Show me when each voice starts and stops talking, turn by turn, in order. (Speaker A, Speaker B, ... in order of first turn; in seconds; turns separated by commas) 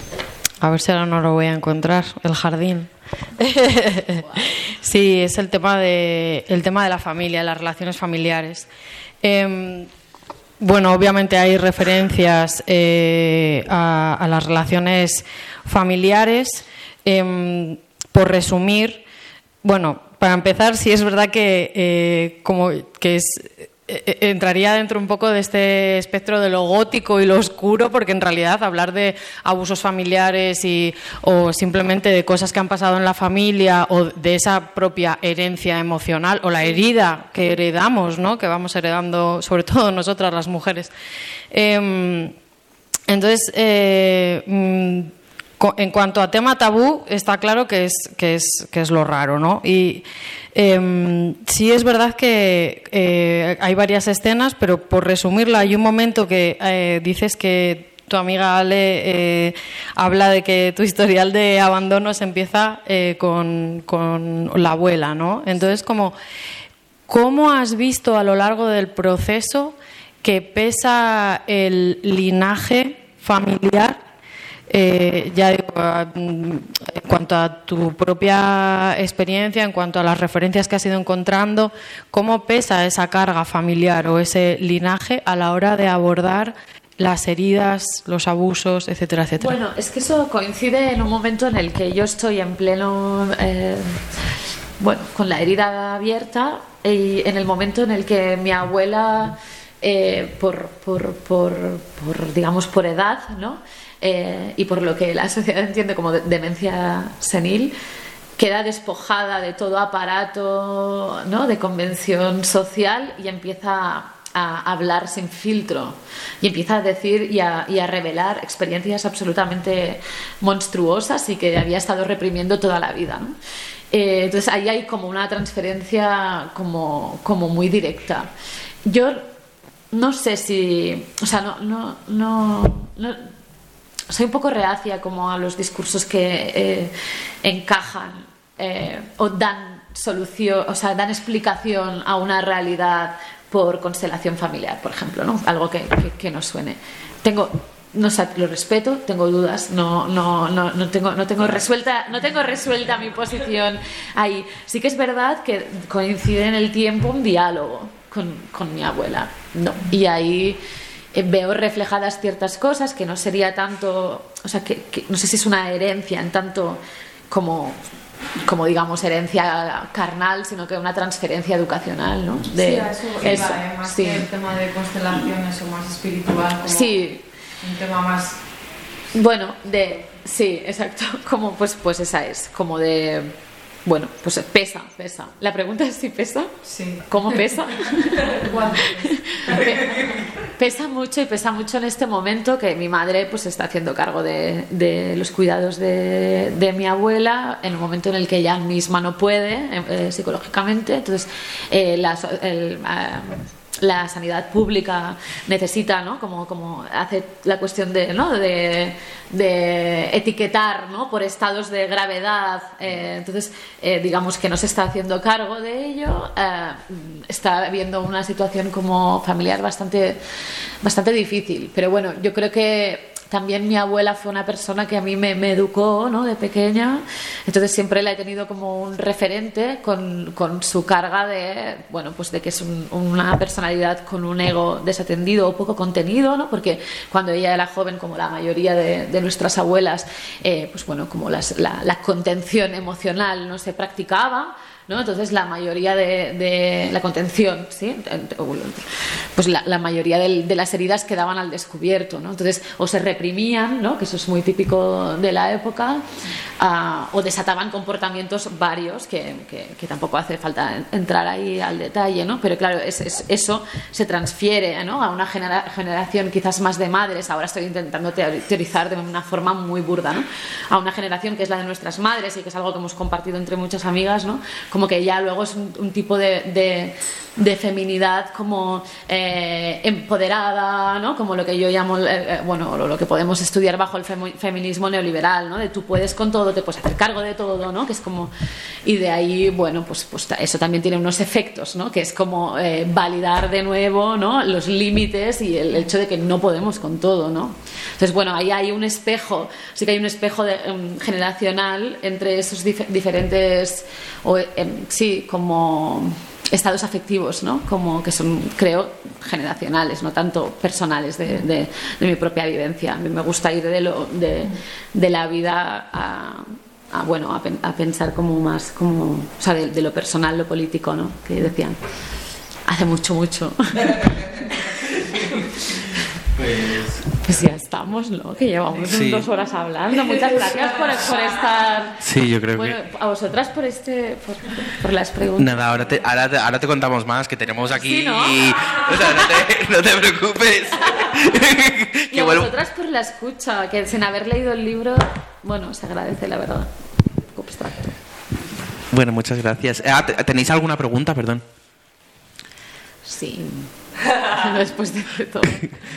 Speaker A: 0.6-8.7, Speaker B: 4.2-4.6, Speaker A: 9.2-9.9, Speaker A: 10.6-19.0, Speaker A: 19.6-40.9, Speaker A: 41.5-42.3, Speaker A: 43.1-66.2, Speaker A: 67.1-74.0, Speaker A: 74.7-89.6, Speaker B: 89.4-94.2, Speaker B: 94.8-107.7, Speaker B: 108.4-123.4, Speaker B: 123.9-128.3, Speaker B: 128.9-129.3, Speaker B: 129.9-133.3, Speaker B: 134.1-160.6, Speaker B: 161.1-167.8, Speaker B: 168.4-174.3, Speaker A: 172.4-177.0, Speaker B: 176.6-177.2, Speaker A: 177.6-178.4, Speaker B: 179.1-186.5, Speaker A: 186.7-187.4, Speaker B: 187.1-220.2, Speaker A: 188.1-189.8, Speaker B: 220.8-288.3, Speaker B: 288.8-321.8, Speaker B: 322.6-324.7, Speaker B: 325.4-326.0, Speaker C: 326.3-327.1, Speaker B: 327.2-332.0, Speaker C: 328.8-329.3, Speaker C: 332.0-332.8, Speaker B: 332.5-335.5, Speaker C: 335.4-342.5, Speaker B: 337.7-338.6, Speaker B: 342.1-347.9, Speaker C: 348.9-351.4, Speaker B: 353.1-355.7